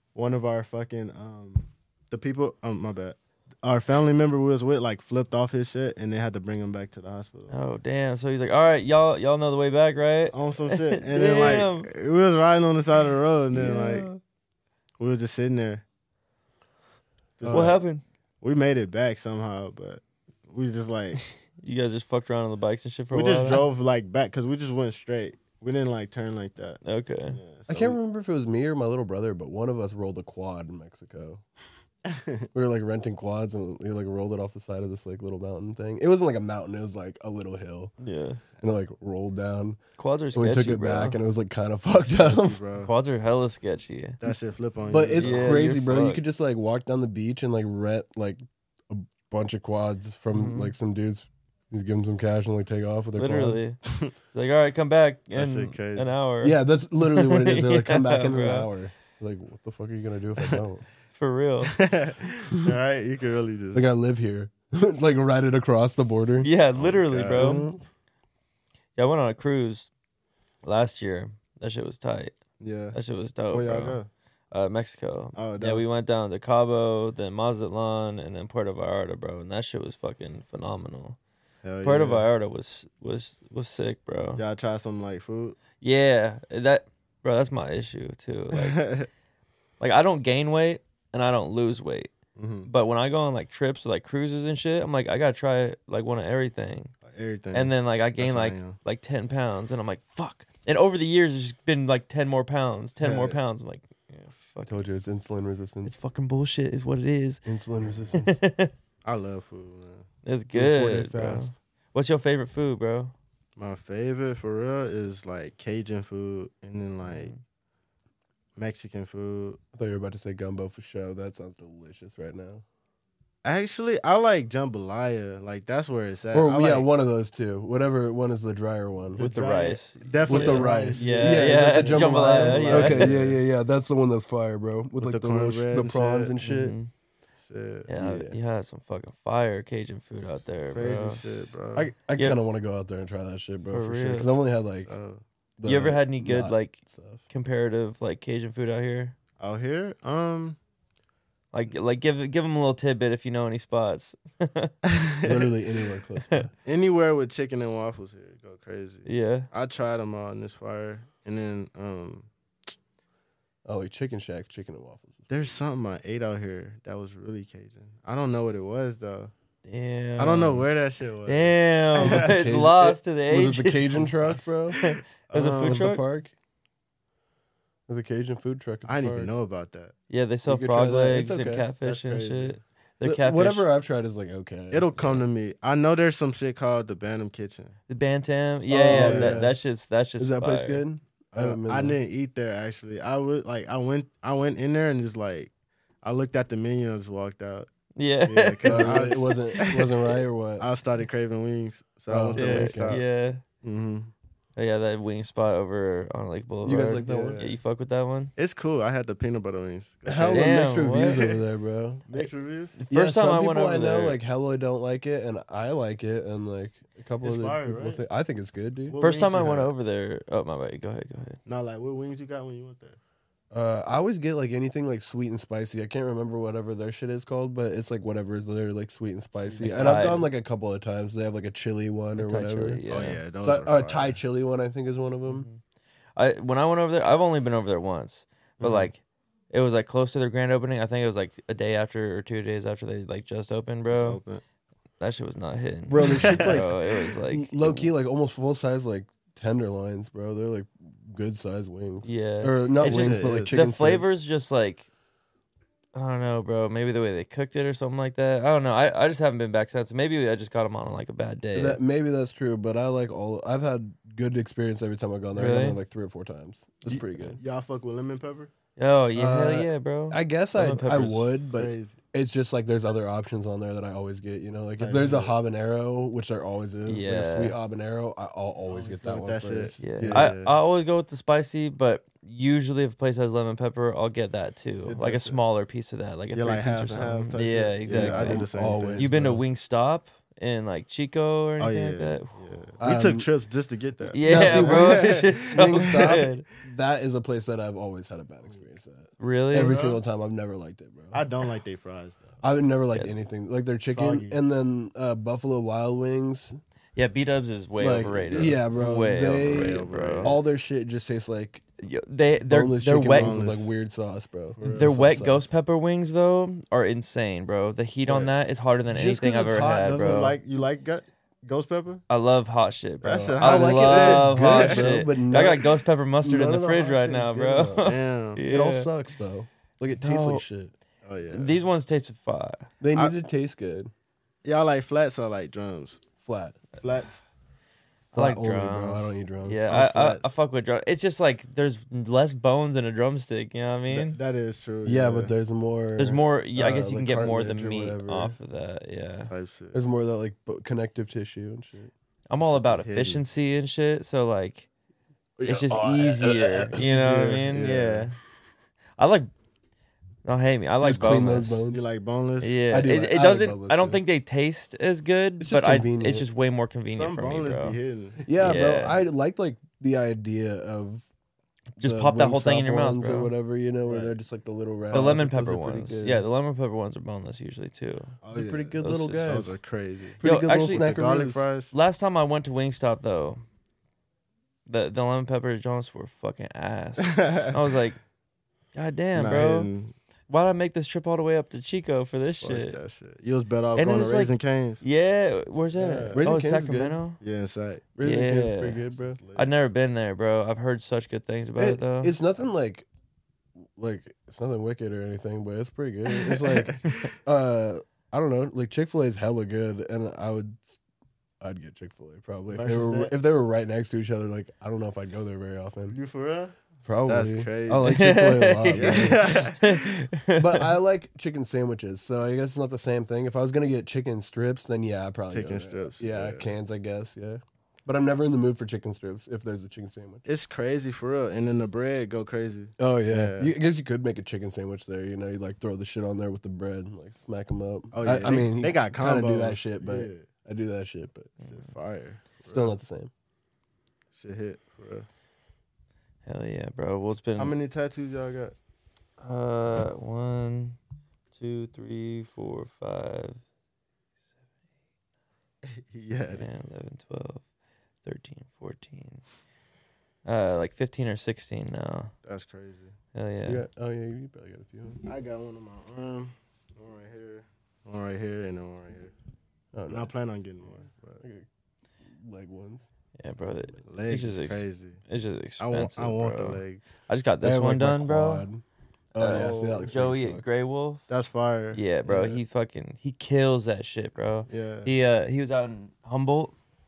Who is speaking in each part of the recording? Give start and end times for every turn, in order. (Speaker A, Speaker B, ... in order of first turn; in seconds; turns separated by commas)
Speaker A: 0.1-7.5, Speaker B: 7.5-11.9, Speaker A: 10.3-14.1, Speaker B: 13.5-14.2, Speaker A: 15.0-15.8, Speaker A: 17.4-17.8, Speaker C: 17.4-17.8, Speaker B: 17.5-18.0, Speaker A: 18.4-21.2, Speaker B: 21.6-23.6, Speaker A: 23.1-28.0, Speaker B: 26.8-27.4, Speaker C: 27.7-31.4, Speaker A: 32.0-32.5, Speaker C: 32.5-37.9, Speaker B: 38.0-38.4, Speaker C: 38.6-39.8, Speaker B: 40.0-41.2, Speaker C: 40.3-42.6, Speaker A: 42.0-42.9, Speaker B: 42.8-44.2, Speaker A: 44.2-45.6, Speaker C: 44.9-53.6, Speaker B: 45.2-46.2, Speaker B: 50.3-50.7, Speaker B: 53.1-58.7, Speaker A: 55.3-56.1, Speaker C: 56.4-60.8, Speaker B: 61.1-61.8, Speaker A: 61.6-63.9, Speaker C: 63.7-66.5, Speaker B: 66.4-67.7, Speaker A: 66.8-67.6, Speaker C: 67.3-67.8, Speaker B: 69.0-69.9, Speaker B: 70.6-72.4, Speaker A: 72.6-73.0, Speaker B: 72.9-74.0, Speaker A: 73.5-74.1, Speaker B: 74.5-81.2, Speaker A: 75.3-75.9, Speaker A: 81.6-82.3, Speaker B: 81.8-84.4, Speaker A: 84.3-85.6, Speaker B: 85.8-88.8, Speaker A: 88.5-89.1, Speaker B: 89.8-92.1, Speaker A: 92.3-92.7, Speaker B: 92.7-96.9, Speaker A: 97.0-98.8, Speaker B: 97.5-104.8, Speaker A: 103.0-103.3, Speaker C: 104.7-105.9, Speaker B: 105.8-107.4, Speaker C: 107.4-108.4, Speaker B: 108.2-108.7, Speaker A: 109.0-110.1, Speaker B: 110.2-113.1, Speaker C: 110.5-111.5, Speaker A: 113.6-117.3, Speaker B: 117.0-117.4, Speaker A: 118.5-119.6, Speaker C: 119.7-122.6, Speaker A: 123.4-126.9, Speaker C: 126.3-129.2, Speaker A: 129.1-133.4, Speaker B: 129.2-133.2, Speaker C: 130.3-136.8, Speaker A: 135.0-136.3, Speaker B: 136.4-136.9, Speaker A: 137.4-137.9, Speaker B: 137.9-141.2, Speaker C: 137.9-138.4, Speaker A: 140.7-141.9, Speaker C: 141.7-144.9, Speaker B: 143.7-144.3, Speaker A: 144.8-145.2, Speaker C: 145.6-147.2, Speaker B: 145.6-149.2, Speaker A: 149.4-150.6, Speaker B: 151.5-154.7, Speaker A: 154.9-155.5, Speaker C: 155.2-156.5, Speaker A: 156.6-162.3, Speaker B: 159.1-159.5, Speaker C: 163.7-165.5, Speaker A: 165.3-169.3, Speaker B: 169.7-170.7, Speaker A: 170.2-172.3, Speaker B: 171.3-174.1, Speaker C: 172.0-174.8, Speaker A: 174.1-175.9, Speaker B: 174.8-176.0, Speaker C: 175.6-176.3, Speaker C: 177.9-179.3, Speaker A: 178.8-179.9, Speaker B: 180.1-183.7, Speaker C: 180.4-181.7, Speaker A: 181.8-182.6, Speaker C: 183.0-185.2, Speaker A: 184.7-187.8, Speaker B: 187.9-190.8, Speaker C: 188.7-189.6, Speaker A: 188.8-189.4, Speaker C: 190.2-192.0, Speaker A: 191.3-195.5, Speaker A: 196.0-197.7, Speaker B: 197.9-199.3, Speaker A: 198.2-203.0, Speaker C: 198.6-200.7, Speaker C: 202.1-203.0, Speaker B: 202.3-203.4, Speaker A: 203.6-204.1, Speaker B: 204.6-208.3, Speaker C: 206.6-207.4, Speaker A: 207.0-207.6, Speaker A: 208.3-211.3, Speaker C: 210.1-212.1, Speaker B: 210.3-211.2, Speaker A: 212.1-212.8, Speaker B: 212.2-214.2, Speaker C: 212.9-219.0, Speaker A: 217.2-218.0, Speaker A: 218.8-219.7, Speaker B: 219.0-221.4, Speaker A: 221.4-223.0, Speaker C: 223.5-232.8, Speaker A: 229.4-230.2, Speaker B: 229.6-230.3, Speaker B: 232.2-233.2, Speaker A: 232.9-234.2, Speaker C: 233.4-235.5, Speaker B: 235.3-235.6, Speaker B: 236.2-244.2, Speaker A: 238.6-238.9, Speaker A: 243.9-244.4, Speaker B: 245.0-247.9, Speaker C: 245.9-254.1, Speaker A: 246.0-246.6, Speaker B: 252.0-254.9, Speaker A: 252.8-253.6, Speaker B: 255.9-261.8, Speaker C: 261.5-267.4, Speaker B: 265.3-265.8, Speaker A: 266.9-268.5, Speaker B: 266.9-267.4, Speaker B: 268.8-271.3, Speaker C: 269.1-280.3, Speaker A: 270.6-272.0, Speaker A: 274.8-275.3, Speaker B: 276.9-277.6, Speaker A: 278.7-280.5, Speaker B: 279.8-292.4, Speaker A: 284.9-285.4, Speaker A: 286.3-289.1, Speaker C: 287.9-289.4, Speaker A: 291.6-296.3, Speaker C: 292.8-293.3, Speaker B: 294.1-296.4, Speaker C: 294.2-301.2, Speaker B: 299.2-299.8, Speaker A: 299.5-300.0, Speaker A: 301.1-302.4, Speaker C: 302.4-306.6, Speaker A: 303.9-304.4, Speaker B: 306.9-310.4, Speaker C: 307.8-311.6, Speaker A: 309.4-310.4, Speaker B: 311.8-313.4, Speaker C: 312.5-315.4, Speaker A: 313.0-313.7, Speaker A: 314.6-314.9, Speaker B: 314.6-320.3, Speaker A: 318.1-318.3, Speaker C: 318.9-320.2, Speaker A: 319.6-322.0, Speaker B: 322.1-328.9, Speaker A: 323.0-324.9, Speaker C: 323.2-327.9, Speaker A: 327.8-328.4, Speaker C: 328.4-330.7, Speaker B: 329.9-330.4, Speaker A: 331.0-331.6, Speaker B: 331.3-332.7, Speaker C: 332.8-333.9, Speaker A: 334.4-336.0, Speaker C: 336.2-336.6, Speaker A: 336.8-337.2, Speaker B: 338.1-344.2, Speaker C: 338.1-339.8, Speaker A: 339.7-340.3, Speaker A: 343.9-345.3, Speaker C: 344.8-348.4, Speaker B: 346.0-349.3, Speaker A: 349.3-349.8, Speaker C: 349.7-351.9, Speaker B: 352.3-354.7, Speaker A: 352.4-353.2, Speaker C: 355.4-356.8, Speaker B: 355.4-358.1, Speaker A: 356.7-358.1, Speaker B: 359.0-359.3, Speaker B: 360.2-361.6, Speaker C: 360.8-361.8, Speaker A: 361.7-362.6, Speaker B: 362.4-367.8, Speaker C: 362.7-364.0, Speaker C: 365.4-366.3, Speaker A: 366.9-368.3, Speaker C: 368.2-371.1, Speaker B: 368.4-369.0, Speaker B: 371.8-373.3, Speaker C: 371.8-376.2, Speaker A: 373.9-374.2, Speaker A: 374.9-375.2, Speaker B: 374.9-378.2, Speaker A: 378.2-381.7, Speaker C: 378.3-379.6, Speaker B: 378.8-379.4, Speaker C: 380.2-381.5, Speaker B: 380.2-380.9, Speaker B: 381.7-383.4, Speaker B: 384.7-388.0, Speaker A: 387.0-387.6, Speaker B: 388.7-389.7, Speaker A: 389.1-389.9, Speaker B: 390.3-392.8, Speaker A: 392.4-394.8, Speaker B: 393.8-397.2, Speaker A: 395.7-396.2, Speaker C: 396.1-397.0, Speaker A: 397.2-397.9, Speaker C: 397.9-399.2, Speaker B: 398.0-398.8, Speaker A: 398.9-399.5, Speaker B: 399.3-402.1, Speaker C: 401.6-402.9, Speaker C: 403.8-410.8, Speaker A: 406.1-406.9, Speaker C: 411.4-416.0, Speaker A: 412.5-413.1, Speaker A: 415.9-416.5, Speaker C: 416.8-419.5, Speaker A: 417.1-418.0, Speaker B: 417.8-420.7, Speaker A: 418.7-419.8, Speaker C: 420.4-430.2, Speaker A: 425.3-426.5, Speaker A: 430.2-433.5, Speaker C: 432.8-441.3, Speaker A: 437.9-440.3, Speaker A: 441.4-442.7, Speaker C: 442.4-443.1, Speaker A: 444.1-445.1, Speaker B: 446.2-447.5, Speaker A: 447.4-448.5, Speaker B: 449.2-450.8, Speaker B: 451.3-453.4, Speaker A: 455.6-456.4, Speaker B: 456.3-457.4, Speaker B: 458.0-459.2, Speaker B: 460.2-462.1, Speaker A: 462.2-462.9, Speaker B: 463.1-463.6, Speaker C: 463.4-465.0, Speaker A: 465.0-469.1, Speaker C: 469.7-470.1, Speaker A: 469.9-471.2, Speaker C: 471.2-471.5, Speaker C: 472.1-472.9, Speaker B: 473.2-478.5, Speaker A: 473.8-475.0, Speaker A: 475.6-476.9, Speaker C: 477.4-480.4, Speaker B: 479.2-481.0, Speaker A: 479.2-479.8, Speaker A: 481.1-482.4, Speaker B: 481.7-486.5, Speaker A: 484.5-484.9